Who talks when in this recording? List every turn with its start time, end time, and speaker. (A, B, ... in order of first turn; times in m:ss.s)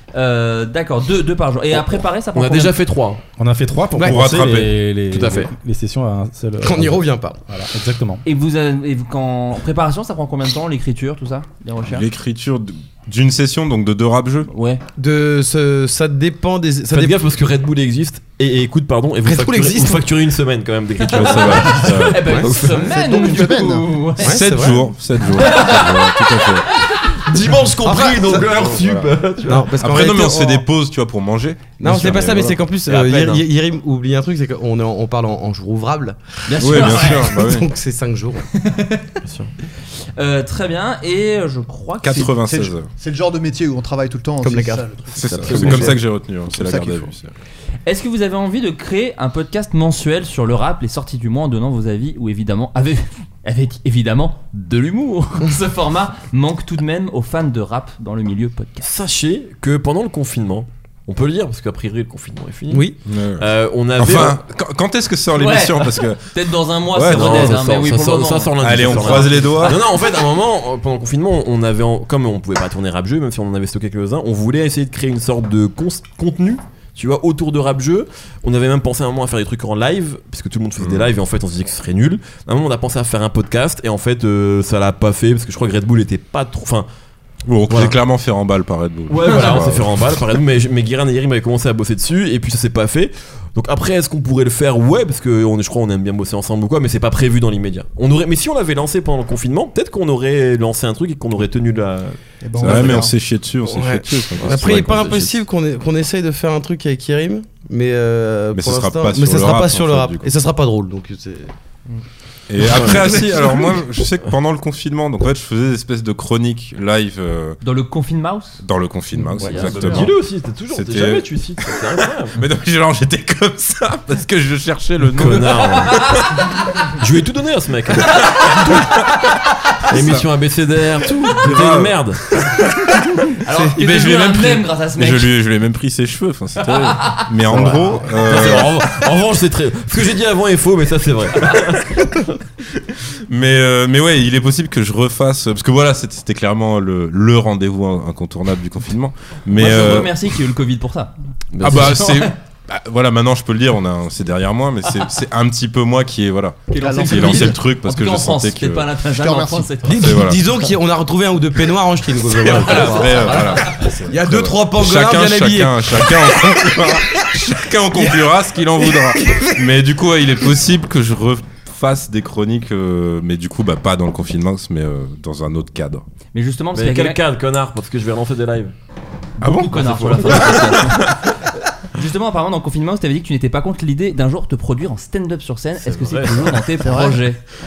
0:00.1-0:02.7 A
0:01.7-0:03.2 B
0:03.4-0:08.2 C
0:04.0-0:04.8 D
0:05.1-0:05.5 B
0:06.6-0:07.4 E
0:08.2-0:12.0 A
0:11.8-0:14.5 D
0:14.5-0:14.8 A
0:15.0-0:17.2 E
0:16.9-0:22.8 B
0:19.2-0:20.0 E
0:21.1-0:24.4 A
0:21.1-0:22.3 D
0:22.2-0:22.5 E
0:22.8-0:24.0 F
0:24.2-0:24.9 E
0:24.2-0:26.7 D
0:25.3-0:27.2 A
0:27.2-0:29.7 B
0:27.8-0:28.4 E
0:28.1-0:28.4 F
0:28.5-0:29.1 D
0:29.4-0:30.6 E
0:29.8-0:32.6 D
0:31.8-0:38.5 E
0:32.8-0:33.4 B
0:36.4-0:37.3 A
0:36.6-0:37.7 D
0:38.5-0:39.2 A
0:39.2-0:39.5 B
0:40.2-0:42.5 A
0:42.0-0:42.9 D
0:42.5-0:46.0 F
0:44.4-0:46.0 E
0:45.1-0:47.3 D
0:46.5-0:47.1 F
0:47.8-0:58.9 A
0:58.8-1:04.4 B
1:02.7-1:03.0 E
1:03.0-1:07.6 D
1:05.3-1:09.8 A
1:07.0-1:26.9 B
1:08.6-1:09.8 D
1:20.8-1:21.1 D
1:27.4-1:30.0 D
1:27.7-1:27.9 B
1:29.1-1:42.2 B
1:29.3-1:29.6 A
1:42.4-1:43.1 F
1:42.6-1:45.0 D
1:42.6-1:43.1 E
1:43.6-1:51.5 E
1:44.4-1:45.4 B
1:48.5-1:50.3 D
1:52.5-1:57.6 D
1:52.6-1:53.7 B
1:57.6-1:58.6 A
1:58.6-2:00.2 D
1:59.3-2:00.0 E
1:59.4-2:00.1 A
1:59.4-2:02.4 B
2:00.7-2:06.2 D
2:05.1-2:06.0 B
2:05.2-2:06.8 A
2:07.0-2:08.9 B
2:08.1-2:08.7 A
2:08.4-2:09.2 D
2:09.9-2:10.2 D
2:09.9-2:12.2 B
2:11.3-2:13.2 D
2:13.4-2:15.3 A
2:13.8-2:18.8 D
2:16.6-2:17.3 A
2:17.5-2:22.2 B
2:23.3-2:30.2 D
2:29.5-2:32.3 A
2:31.5-2:32.0 B
2:31.6-2:38.9 D
2:36.7-2:40.1 A
2:36.8-2:37.6 F
2:39.2-2:39.9 F
2:39.8-2:46.9 E
2:39.9-2:40.4 D
2:42.3-2:43.9 A
2:42.3-2:56.0 D
2:48.9-2:49.6 E
2:56.3-2:57.2 A
2:56.7-2:58.7 B
2:59.4-3:01.2 D
2:59.4-3:07.4 A
2:59.8-3:00.8 B
3:05.8-3:06.6 B
3:06.8-3:07.2 F